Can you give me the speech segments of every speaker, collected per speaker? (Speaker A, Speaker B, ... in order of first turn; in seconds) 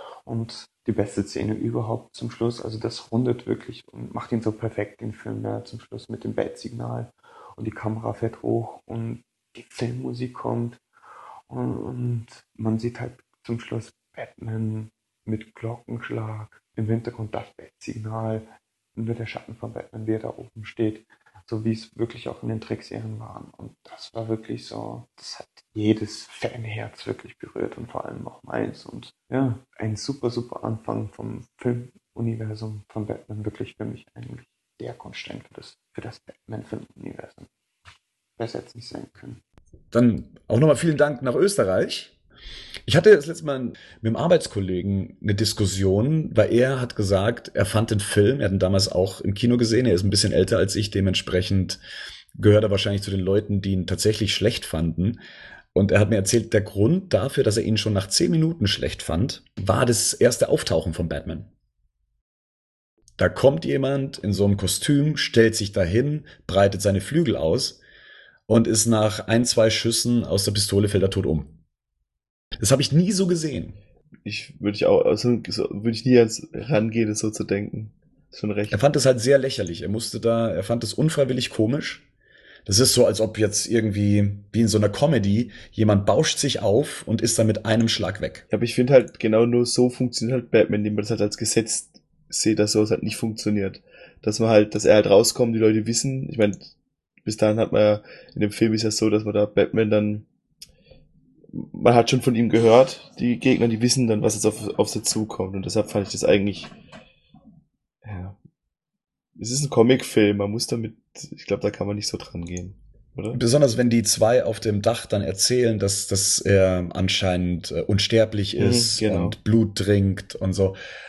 Speaker A: 0.2-10.8, 11.5-37.5, 38.4-39.4
Speaker B: 39.9-42.1, 42.9-51.8, 52.4-55.2, 55.7-61.5, 63.2-67.8, 68.5-71.5, 72.6-73.8, 78.7-82.0, 82.7-88.5, 113.3-120.8
Speaker C: 74.2-78.8, 88.5-96.7, 97.2-100.2, 101.5-106.7, 108.0-108.4, 109.4-113.4, 118.6-119.4